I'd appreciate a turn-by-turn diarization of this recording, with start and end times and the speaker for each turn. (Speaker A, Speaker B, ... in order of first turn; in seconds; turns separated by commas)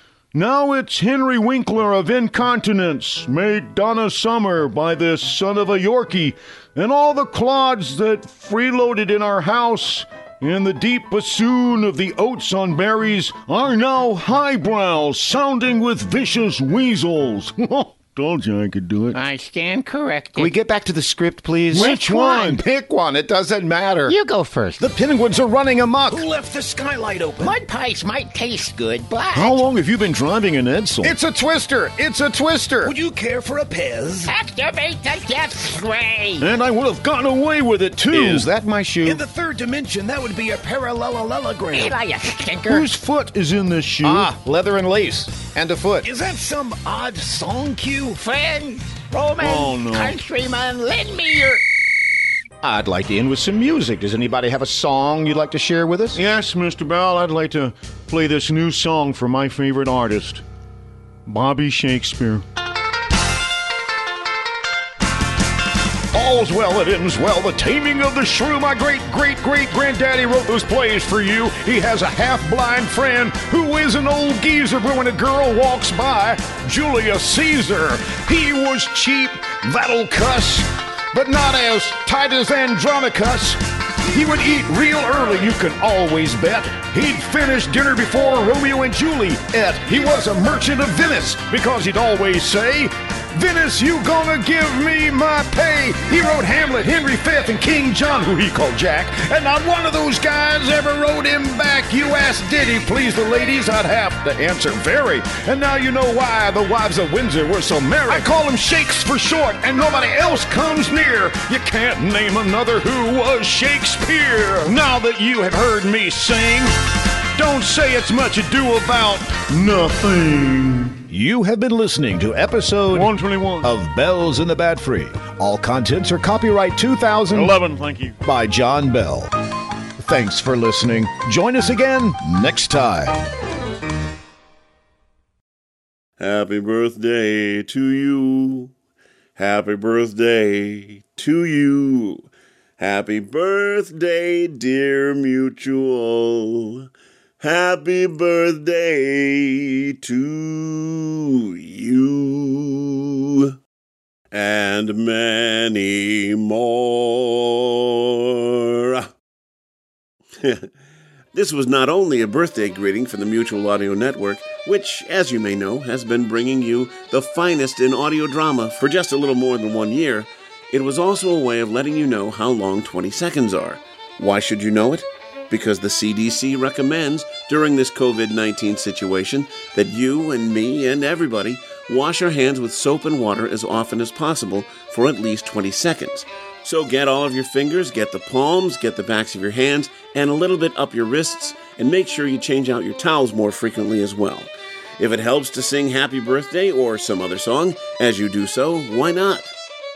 Speaker A: 0.3-19.2, Speaker B: 19.1-20.5, Speaker C: 20.4-24.2, Speaker B: 21.7-22.6, Speaker A: 21.7-22.6, Speaker B: 24.1-24.8, Speaker C: 24.8-26.2, Speaker D: 26.1-27.5, Speaker B: 27.4-29.6, Speaker A: 29.3-31.1, Speaker C: 31.0-33.0, Speaker D: 32.8-34.3, Speaker B: 34.2-36.5, Speaker A: 36.4-38.5, Speaker C: 38.1-39.2, Speaker D: 39.0-42.0, Speaker B: 41.7-42.9, Speaker A: 42.7-44.3, Speaker C: 44.0-46.1, Speaker D: 46.0-48.2, Speaker B: 48.2-51.6, Speaker A: 49.4-50.2, Speaker C: 52.6-56.2, Speaker A: 56.1-60.4, Speaker A: 61.2-62.4, Speaker A: 66.1-116.7, Speaker A: 117.3-121.2, Speaker C: 121.3-123.1, Speaker A: 122.9-125.2, Speaker C: 123.6-124.2, Speaker C: 125.2-127.6, Speaker A: 127.3-128.3, Speaker C: 128.3-129.3, Speaker C: 130.0-131.1, Speaker A: 130.3-132.1, Speaker C: 132.1-133.1, Speaker E: 136.2-138.7, Speaker E: 139.3-142.3, Speaker E: 142.8-146.9, Speaker E: 147.4-153.5, Speaker E: 154.3-159.1, Speaker E: 160.4-160.7, Speaker E: 161.3-199.5